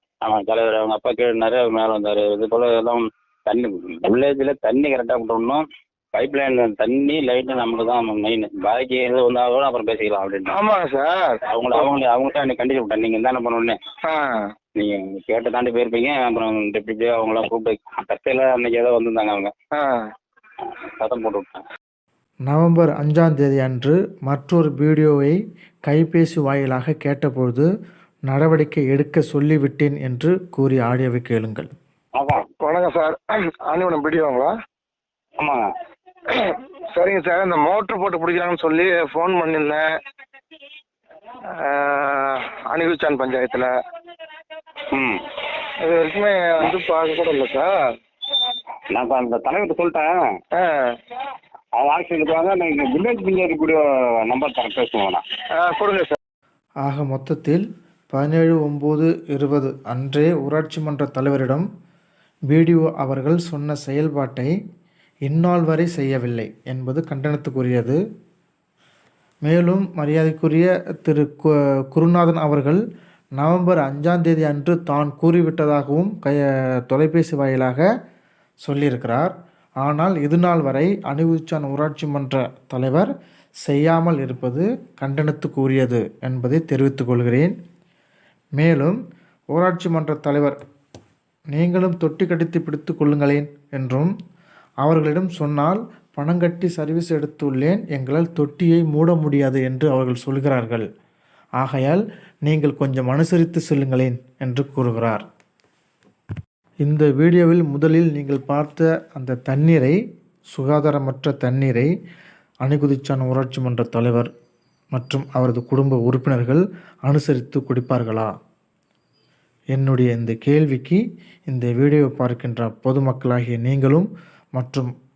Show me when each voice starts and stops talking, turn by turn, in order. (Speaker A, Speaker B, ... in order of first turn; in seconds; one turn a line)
Speaker A: 0.2-5.6
Speaker A: 6.1-10.6
Speaker B: 10.5-11.8
Speaker A: 11.5-13.8
Speaker B: 14.0-14.4
Speaker A: 14.8-19.5
Speaker B: 19.7-20.1
Speaker A: 20.6-21.6
Speaker C: 22.5-27.7
Speaker C: 28.3-31.7
Speaker A: 32.2-32.5
Speaker B: 32.6-34.5
Speaker A: 35.4-35.7
Speaker B: 36.2-39.9
Speaker B: 41.4-43.7
Speaker A: 44.9-45.4
Speaker B: 45.6-47.8
Speaker A: 48.9-50.1
Speaker B: 50.5-51.0
Speaker A: 51.8-55.2
Speaker B: 55.5-56.2
Speaker C: 56.8-61.7
Speaker C: 62.5-64.5
Speaker C: 65.3-68.0
Speaker C: 69.4-72.8
Speaker C: 73.4-77.8
Speaker C: 78.6-79.3
Speaker C: 79.8-83.1
Speaker C: 83.6-87.5
Speaker C: 88.5-89.0
Speaker C: 89.5-90.6
Speaker C: 91.5-94.1
Speaker C: 94.8-100.8
Speaker C: 101.6-105.2
Speaker C: 106.8-110.0
Speaker C: 110.5-111.9
Speaker C: 112.6-114.3
Speaker C: 114.9-118.3
Speaker C: 119.7-124.9